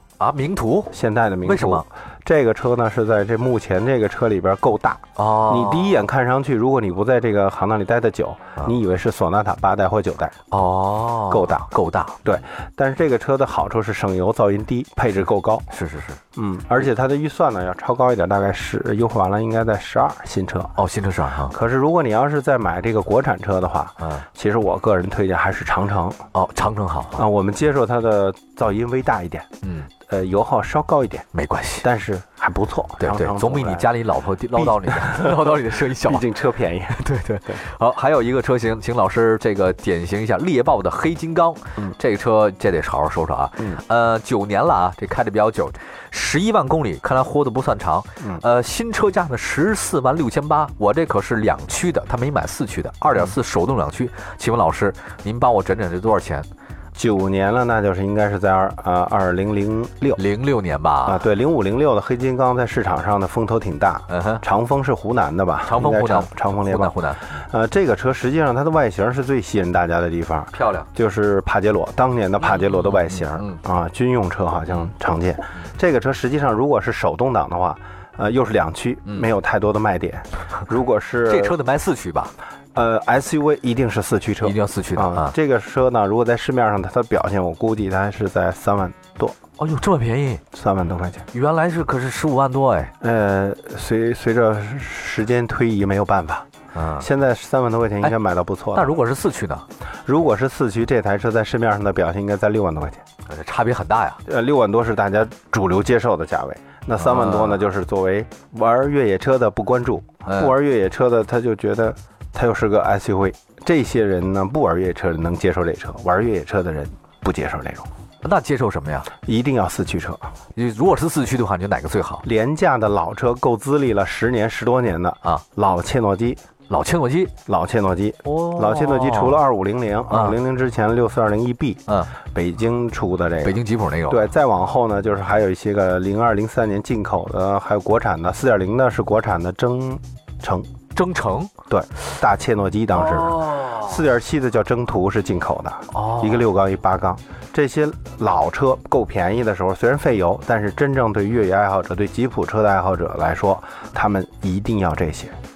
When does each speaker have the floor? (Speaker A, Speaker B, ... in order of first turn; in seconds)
Speaker A: 0.2-1.9, 5.2-6.0, 10.5-12.2, 15.7-16.2, 20.8-21.6, 26.3-27.2, 29.6-29.9, 31.3-31.9, 33.0-36.2, 36.9-56.5, 60.2-61.2, 64.1-64.4, 65.6-67.3, 70.5-70.9, 72.4-73.6, 81.3-82.3, 84.4-85.3, 89.6-90.4, 91.3-92.9, 96.7-97.1, 98.7-99.7, 103.3-104.2, 107.0-107.6, 110.3-110.5, 118.2-119.1, 120.6-122.2, 126.7-127.3, 128.2-129.4, 130.1-130.4, 131.9-132.1, 133.4-134.3, 140.9-141.5, 143.0-144.0, 145.9-146.4
Speaker B: 0.9-10.3, 11.3-11.7, 12.2-15.8, 16.4-20.7, 21.5-26.2, 27.2-29.5, 30.1-31.3, 31.8-33.9, 34.6-37.6, 57.0-60.2, 61.1-81.6, 82.8-89.4, 90.5-91.3, 93.0-96.5, 97.0-98.9, 100.1-103.0, 104.3-117.9, 119.3-120.3, 122.2-126.4, 127.5-131.8, 132.3-133.6, 134.1-140.7, 141.7-155.4